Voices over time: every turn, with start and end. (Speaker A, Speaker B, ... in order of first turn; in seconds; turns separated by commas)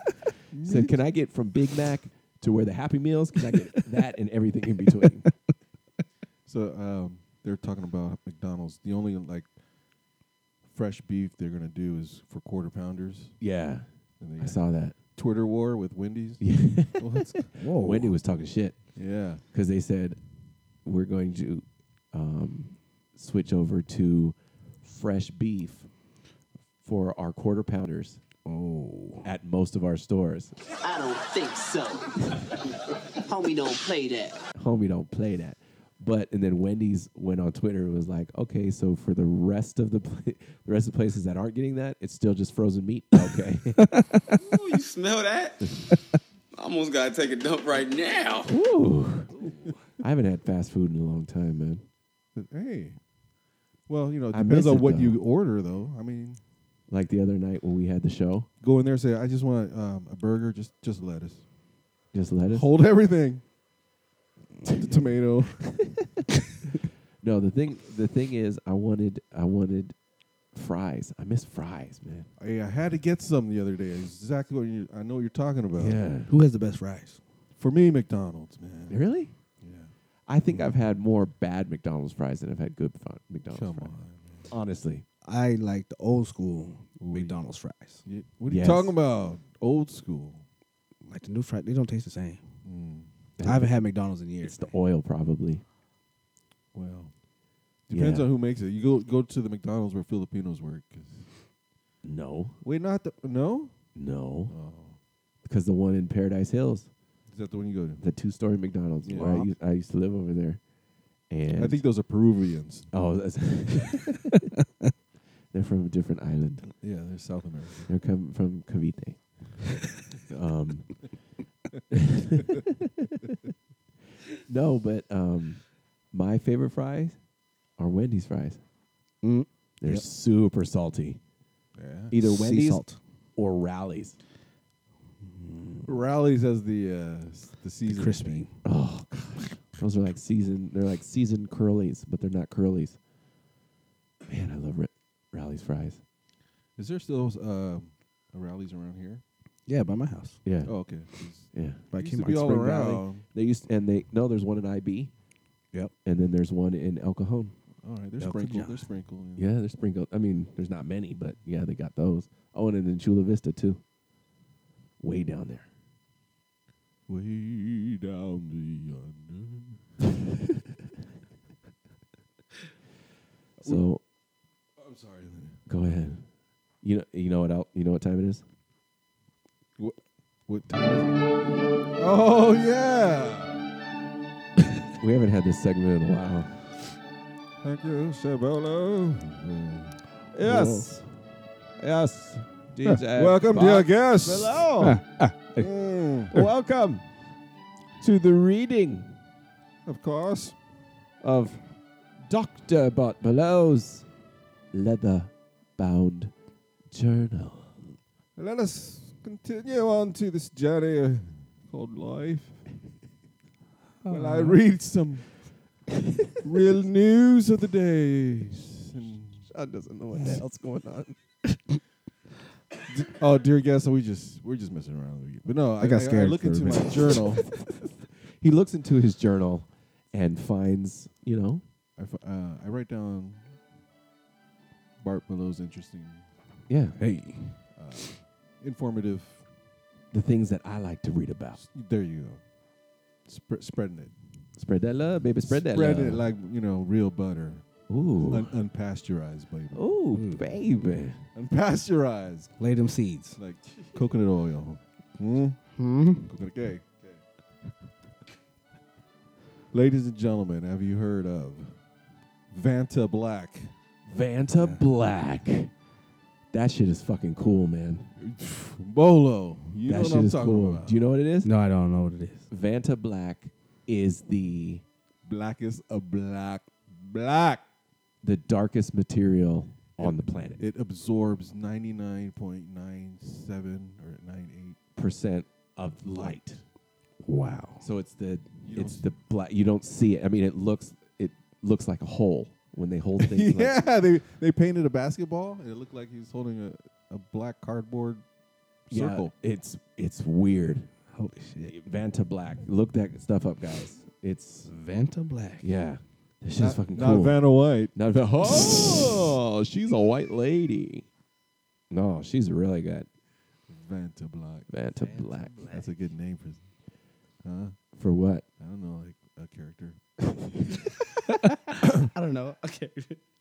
Speaker A: 0.5-1.0, Speaker B: 0.7-5.3, Speaker A: 6.5-9.5, Speaker A: 10.7-13.4, Speaker B: 13.4-14.9, Speaker A: 14.2-14.6, Speaker A: 15.1-17.6, Speaker B: 16.4-17.1, Speaker C: 17.6-18.1, Speaker B: 17.6-18.9, Speaker A: 18.9-19.4, Speaker B: 19.5-20.2, Speaker B: 20.8-25.9, Speaker B: 26.8-28.2, Speaker C: 28.5-29.3, Speaker B: 29.2-30.5, Speaker D: 30.8-32.1, Speaker D: 33.2-34.4, Speaker B: 34.6-43.8, Speaker C: 43.8-44.4, Speaker E: 44.5-45.6, Speaker E: 46.5-48.5, Speaker B: 48.5-49.3, Speaker B: 50.0-51.9, Speaker A: 52.4-53.0, Speaker A: 53.9-56.4, Speaker B: 54.3-55.2, Speaker B: 56.9-58.5, Speaker A: 58.6-61.4, Speaker B: 62.1-62.7, Speaker A: 62.5-63.4, Speaker A: 64.8-65.6, Speaker B: 67.2-70.0, Speaker B: 70.5-72.3, Speaker A: 72.4-76.0, Speaker B: 75.8-76.3, Speaker C: 76.2-77.2, Speaker A: 77.6-79.0, Speaker B: 78.9-79.3, Speaker A: 79.6-79.9, Speaker B: 80.3-84.0, Speaker A: 83.5-84.5, Speaker B: 84.5-85.0, Speaker C: 85.2-88.0, Speaker A: 87.0-87.4, Speaker A: 88.0-90.5, Speaker B: 88.5-89.0, Speaker C: 91.0-92.4, Speaker A: 92.6-93.1, Speaker B: 93.4-93.8, Speaker C: 93.4-94.7, Speaker B: 94.4-95.6, Speaker A: 96.7-97.1, Speaker A: 97.9-101.3, Speaker B: 97.9-98.3, Speaker B: 102.0-102.6, Speaker A: 102.6-103.8, Speaker B: 104.0-104.5, Speaker A: 104.5-105.0, Speaker B: 105.4-106.9, Speaker A: 107.3-108.0, Speaker B: 108.0-110.6, Speaker A: 109.0-109.5, Speaker B: 111.3-111.8, Speaker A: 111.6-112.9, Speaker B: 112.9-114.2, Speaker B: 115.5-116.7, Speaker A: 116.8-117.9, Speaker B: 117.9-119.4, Speaker B: 120.3-121.1, Speaker B: 121.9-122.7, Speaker B: 124.5-127.2, Speaker B: 127.8-128.6, Speaker C: 129.2-130.1, Speaker B: 129.8-131.2, Speaker A: 131.8-132.1, Speaker B: 132.1-132.8, Speaker C: 132.2-133.0, Speaker B: 133.4-134.2, Speaker C: 135.2-135.9, Speaker A: 135.8-138.5, Speaker C: 137.9-138.5, Speaker B: 138.6-143.0, Speaker B: 144.3-146.0, Speaker A: 146.8-149.2, Speaker C: 149.7-150.4, Speaker B: 150.4-151.0, Speaker A: 150.6-153.2, Speaker B: 151.5-155.1, Speaker C: 151.9-153.0, Speaker B: 156.0-157.6, Speaker A: 157.8-159.5, Speaker C: 158.2-158.9, Speaker B: 159.4-163.8, Speaker B: 165.0-165.7, Speaker A: 167.1-169.8, Speaker B: 173.7-174.0, Speaker A: 174.8-175.6, Speaker B: 175.7-176.3, Speaker B: 176.8-178.4, Speaker A: 179.8-181.1, Speaker A: 182.0-183.5, Speaker B: 185.0-186.6, Speaker A: 187.6-190.0, Speaker B: 190.3-191.1, Speaker C: 190.4-190.9, Speaker B: 191.8-195.0, Speaker A: 193.1-194.7, Speaker C: 194.8-195.7, Speaker A: 195.6-196.3, Speaker B: 196.3-197.1, Speaker B: 198.0-199.2, Speaker A: 199.9-200.6, Speaker B: 201.2-201.6, Speaker B: 202.2-204.1, Speaker B: 204.7-206.3, Speaker B: 206.9-207.8, Speaker A: 208.4-212.6, Speaker C: 214.0-214.6, Speaker A: 214.1-215.3, Speaker A: 216.4-219.5, Speaker B: 219.5-221.2, Speaker A: 222.9-227.4, Speaker C: 225.8-227.2, Speaker B: 228.4-231.6, Speaker A: 232.0-233.6, Speaker A: 235.0-236.3, Speaker B: 236.7-237.0, Speaker C: 237.0-237.6, Speaker A: 237.7-239.4, Speaker B: 240.1-241.6, Speaker A: 241.6-242.4, Speaker A: 243.2-244.1, Speaker B: 244.6-246.3, Speaker A: 245.4-247.7, Speaker B: 247.9-248.5, Speaker A: 248.3-249.8, Speaker B: 249.7-251.2, Speaker C: 250.1-250.5, Speaker A: 251.3-252.5, Speaker C: 252.6-253.4, Speaker A: 253.4-255.6, Speaker C: 255.8-256.3, Speaker A: 256.2-257.2, Speaker A: 259.7-261.8, Speaker A: 262.5-263.7, Speaker B: 264.1-265.7, Speaker B: 266.5-268.1, Speaker A: 268.2-271.0, Speaker B: 269.9-271.5, Speaker C: 271.4-272.5, Speaker B: 272.5-274.8, Speaker A: 275.2-277.6, Speaker B: 278.2-280.6, Speaker A: 280.0-284.8, Speaker B: 285.0-286.6, Speaker A: 286.1-286.4, Speaker C: 287.2-287.9, Speaker B: 287.8-293.8, Speaker A: 288.7-289.1, Speaker A: 293.2-298.2, Speaker A: 298.9-299.3, Speaker B: 298.9-300.9, Speaker C: 301.1-301.8, Speaker B: 301.7-304.7, Speaker C: 304.7-305.7, Speaker B: 305.6-307.4, Speaker A: 306.6-309.3, Speaker B: 307.9-311.1, Speaker B: 311.9-313.1, Speaker A: 313.7-314.7, Speaker B: 314.7-315.6, Speaker C: 315.0-315.9, Speaker A: 315.6-316.7, Speaker A: 317.4-317.8, Speaker B: 318.0-318.4, Speaker A: 318.6-320.0, Speaker C: 322.1-323.2